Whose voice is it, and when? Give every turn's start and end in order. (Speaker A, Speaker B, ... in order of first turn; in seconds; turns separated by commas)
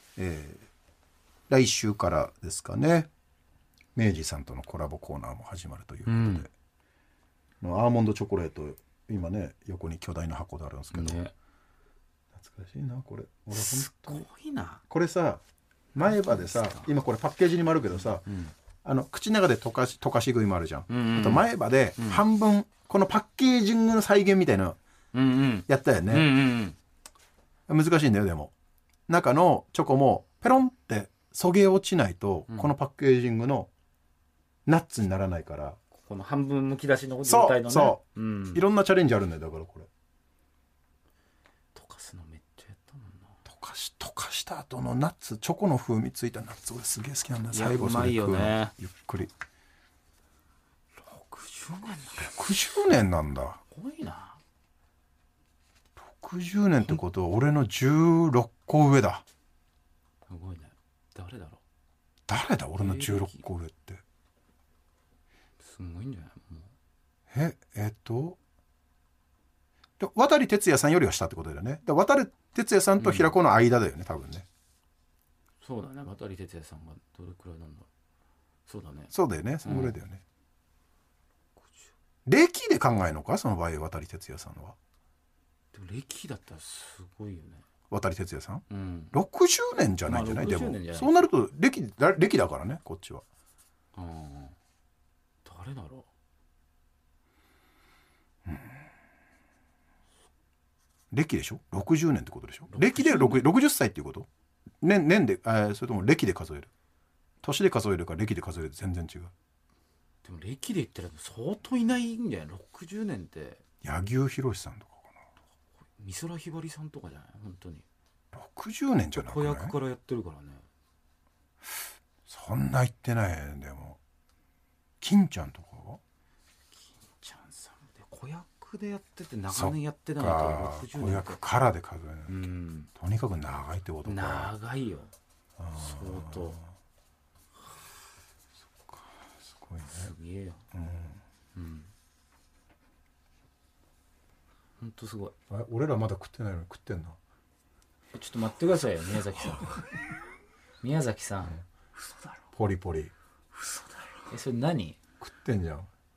Speaker A: 0.1-0.7, Speaker A: 1.5-3.1, Speaker A: 3.9-6.5, Speaker B: 6.1-6.5, Speaker A: 7.6-11.2, Speaker B: 10.9-11.3, Speaker A: 12.3-14.3, Speaker B: 13.5-14.8, Speaker A: 14.9-15.4, Speaker A: 15.9-18.2, Speaker B: 16.1-16.9, Speaker B: 17.9-18.5, Speaker A: 18.8-24.8, Speaker B: 20.9-22.2, Speaker B: 25.1-26.8, Speaker A: 25.7-26.5, Speaker A: 27.7-28.5, Speaker A: 29.1-33.7, Speaker A: 34.6-35.8, Speaker B: 36.0-38.6, Speaker A: 37.2-39.9, Speaker B: 41.7-43.4, Speaker A: 43.5-49.3, Speaker B: 47.5-48.7, Speaker B: 51.0-52.3, Speaker A: 52.2-53.6, Speaker B: 53.7-54.4, Speaker A: 56.0-59.2, Speaker B: 60.3-61.6, Speaker A: 62.3-64.0, Speaker B: 62.8-63.4, Speaker B: 65.6-66.7, Speaker A: 67.3-68.4, Speaker A: 70.0-74.5, Speaker B: 73.0-73.3, Speaker B: 75.6-77.9, Speaker B: 78.7-80.0, Speaker A: 79.1-80.2, Speaker B: 81.6-81.9, Speaker A: 82.2-84.8, Speaker B: 85.7-87.6, Speaker A: 87.9-93.2, Speaker B: 88.7-89.1, Speaker B: 90.0-91.3, Speaker B: 93.9-94.5, Speaker B: 95.4-96.1, Speaker A: 98.5-98.8, Speaker A: 101.1-104.3, Speaker B: 102.7-103.5, Speaker A: 104.8-106.7, Speaker A: 107.4-109.3, Speaker B: 110.2-113.6, Speaker A: 113.8-115.2, Speaker B: 116.0-117.8, Speaker A: 118.3-119.8, Speaker B: 119.1-120.6, Speaker A: 122.2-124.0, Speaker A: 125.0-126.0, Speaker B: 126.7-131.4, Speaker A: 129.5-134.5, Speaker B: 132.3-132.9, Speaker B: 134.0-135.1, Speaker A: 135.6-136.7, Speaker B: 135.8-136.6, Speaker A: 138.9-140.1, Speaker B: 140.0-140.6, Speaker A: 140.7-141.2, Speaker B: 141.5-141.9, Speaker B: 144.8-145.3, Speaker A: 145.5-147.2, Speaker B: 148.1-149.8, Speaker B: 150.8-151.6, Speaker A: 152.6-153.1, Speaker B: 154.3-155.0, Speaker A: 155.2-155.9